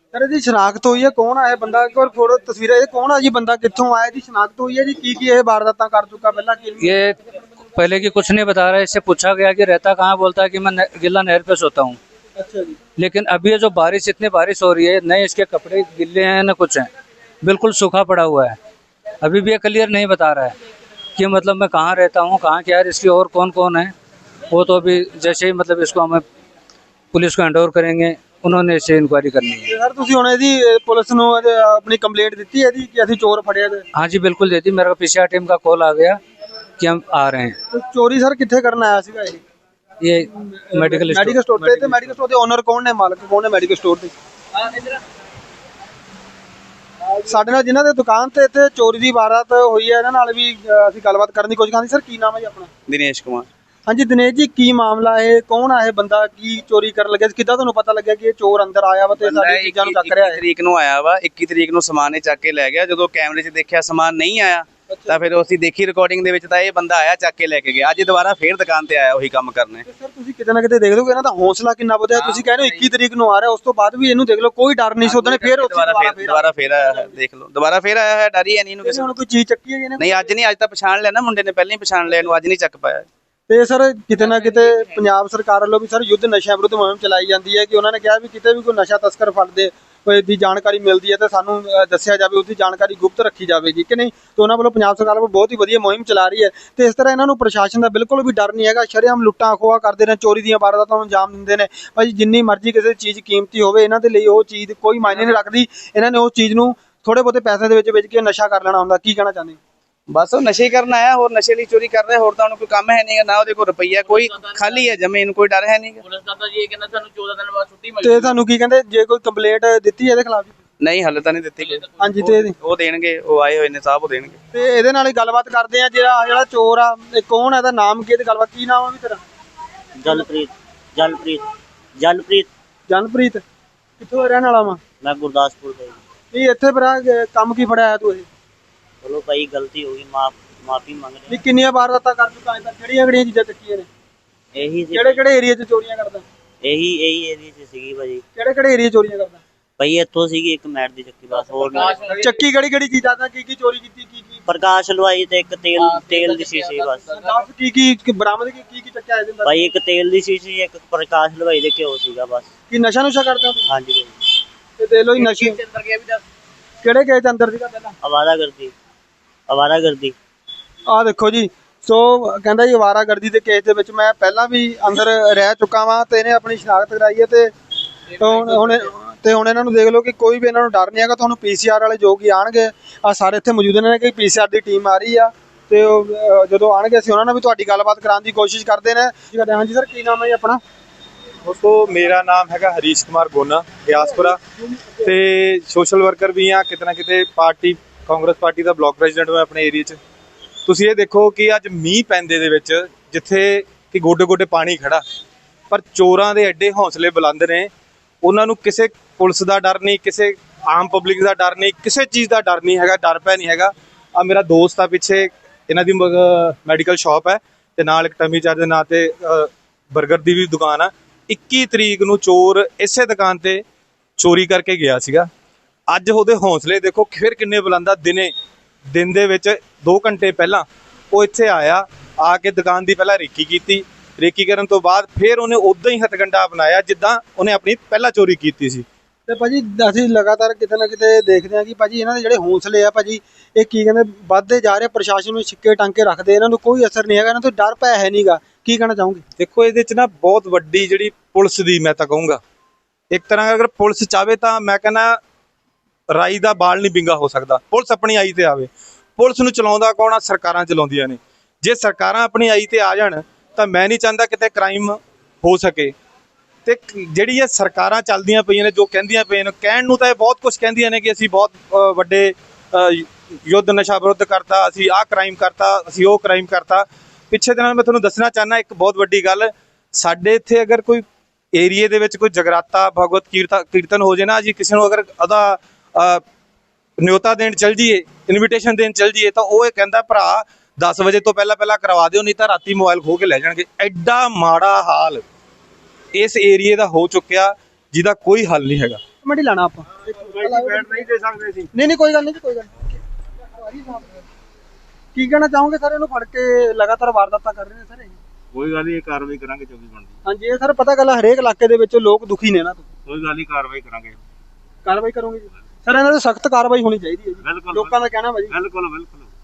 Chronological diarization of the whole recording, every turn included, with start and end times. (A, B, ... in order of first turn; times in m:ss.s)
0:00.1-0:06.9 A
0:06.8-0:07.2 B
0:07.7-0:12.0 B
0:12.4-0:12.8 A
0:13.0-0:16.9 B
0:17.4-0:18.6 B
0:19.2-0:20.5 B
0:21.2-0:23.9 B
0:24.5-0:26.2 B
0:27.1-0:29.7 B
0:29.7-0:33.8 A
0:33.9-0:36.2 B
0:36.8-0:37.6 B
0:37.7-0:39.4 A
0:40.0-0:42.1 B
0:40.4-0:44.1 A
0:47.2-0:52.7 A
0:52.9-0:53.5 C
0:53.9-1:00.4 A
0:59.2-1:09.8 C
1:04.9-1:05.2 A
1:09.8-1:17.1 A
1:12.2-1:12.4 C
1:15.0-1:19.1 C
1:18.8-1:20.3 A
1:20.0-1:23.1 C
1:23.5-1:49.6 A
1:50.1-1:56.0 C
1:56.1-1:58.2 D
1:58.0-2:00.5 A
2:00.8-2:04.4 C
2:02.0-2:02.5 A
2:04.5-2:09.2 A
2:10.0-2:12.5 E
2:12.9-2:13.4 A
2:14.0-2:14.8 A
2:15.0-2:16.0 E
2:16.3-2:18.3 A
2:19.0-2:21.4 E
2:21.3-2:23.9 A
2:24.5-2:25.2 E
2:24.9-2:26.2 A
2:26.6-2:28.2 E
2:28.3-2:29.4 A
2:29.8-2:32.0 E
2:31.4-2:32.3 D
2:32.1-2:34.4 A
2:34.5-2:37.0 E
2:35.9-2:37.4 D
2:37.1-2:39.7 A
2:39.4-2:42.5 E
2:42.7-2:43.7 A
2:43.7-2:44.1 E
2:44.8-2:45.6 A
2:45.2-2:46.2 D
2:46.8-2:48.0 A
2:48.0-2:48.7 E
2:49.5-2:50.2 E
2:50.9-2:57.5 A
2:58.2-3:10.6 A
3:11.4-3:14.4 F
3:13.9-3:15.1 A
3:15.0-3:20.0 F
3:20.7-3:25.0 F
3:25.7-3:27.7 F
3:28.2-3:43.6 F
3:44.2-3:45.3 F
3:45.9-3:48.3 F
3:48.9-3:58.8 F
3:59.3-4:09.2 A
4:09.4-4:12.4 F
4:13.1-4:15.2 F
4:16.1-4:25.9 F
4:26.6-4:46.2 F
4:47.0-4:55.2 F
4:56.1-4:59.0 F
4:59.2-5:01.0 A
5:00.3-5:01.6 G
5:01.0-5:01.5 F
5:01.7-5:03.0 A
5:03.5-5:04.2 A
5:05.1-5:08.2 A
5:08.5-5:09.2 F
5:08.6-5:10.0 G
5:10.2-5:12.9 A
5:13.1-5:13.9 F
5:13.2-5:14.1 G
5:14.8-5:18.6 A
5:18.5-5:19.1 F
5:18.7-5:19.2 G